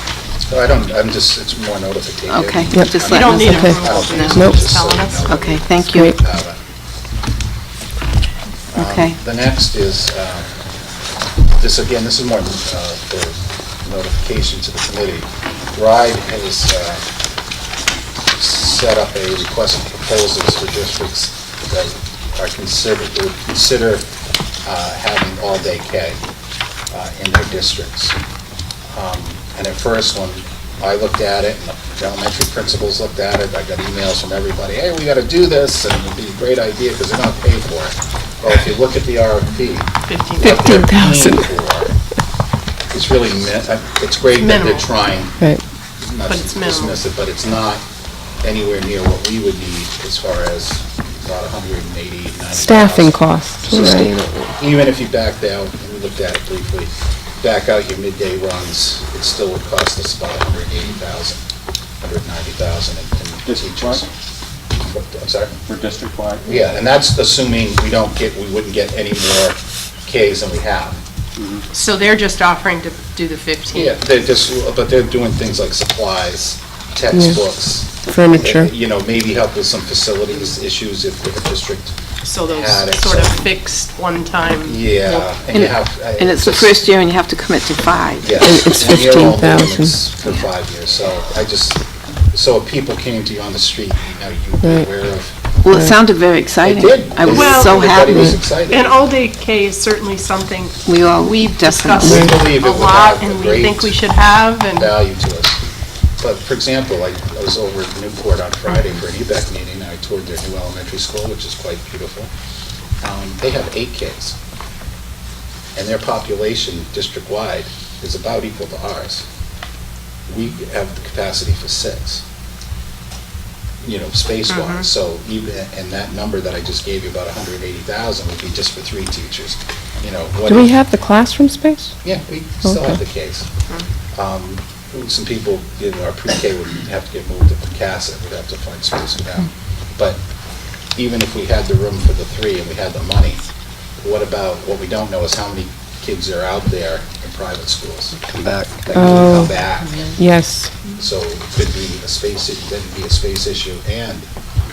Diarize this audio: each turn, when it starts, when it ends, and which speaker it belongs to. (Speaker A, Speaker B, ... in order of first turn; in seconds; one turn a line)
Speaker A: 0.3-6.6
Speaker B: 2.3-4.4
Speaker C: 2.7-3.8
Speaker D: 3.0-5.6
Speaker C: 4.3-4.6
Speaker B: 5.3-6.1
Speaker C: 5.9-6.2
Speaker A: 8.7-10.6
Speaker B: 8.8-9.2
Speaker A: 11.6-17.1
Speaker A: 18.3-24.1
Speaker A: 24.6-26.2
Speaker A: 26.9-28.2
Speaker A: 28.9-41.9
Speaker D: 40.1-40.5
Speaker C: 40.4-41.5
Speaker A: 42.9-47.8
Speaker D: 44.4-44.9
Speaker D: 46.2-47.0
Speaker A: 48.4-61.4
Speaker C: 52.5-54.5
Speaker E: 53.8-54.1
Speaker A: 62.0-64.1
Speaker E: 63.4-64.0
Speaker A: 64.8-65.6
Speaker E: 65.6-66.6
Speaker A: 66.4-71.0
Speaker E: 71.3-71.6
Speaker D: 71.7-74.0
Speaker A: 73.7-83.4
Speaker C: 77.1-77.4
Speaker C: 78.0-78.7
Speaker D: 82.2-85.2
Speaker A: 84.4-86.8
Speaker B: 85.5-88.4
Speaker A: 88.2-95.4
Speaker C: 88.4-90.0
Speaker C: 94.6-94.9
Speaker B: 95.6-98.4
Speaker A: 96.6-99.0
Speaker D: 97.3-97.8
Speaker D: 98.5-100.8
Speaker B: 100.8-102.3
Speaker D: 101.5-104.9
Speaker A: 102.0-104.0
Speaker A: 104.7-105.6
Speaker A: 106.2-112.3
Speaker A: 113.0-114.4
Speaker A: 115.8-119.2
Speaker A: 120.3-122.2
Speaker A: 123.8-130.7
Speaker D: 124.5-124.9
Speaker C: 130.5-132.0
Speaker A: 132.0-133.5
Speaker C: 132.6-133.0
Speaker A: 134.1-140.2
Speaker A: 140.9-143.5
Speaker A: 144.0-148.2
Speaker A: 148.8-150.1
Speaker C: 148.9-149.6
Speaker C: 150.2-150.7
Speaker A: 150.9-154.3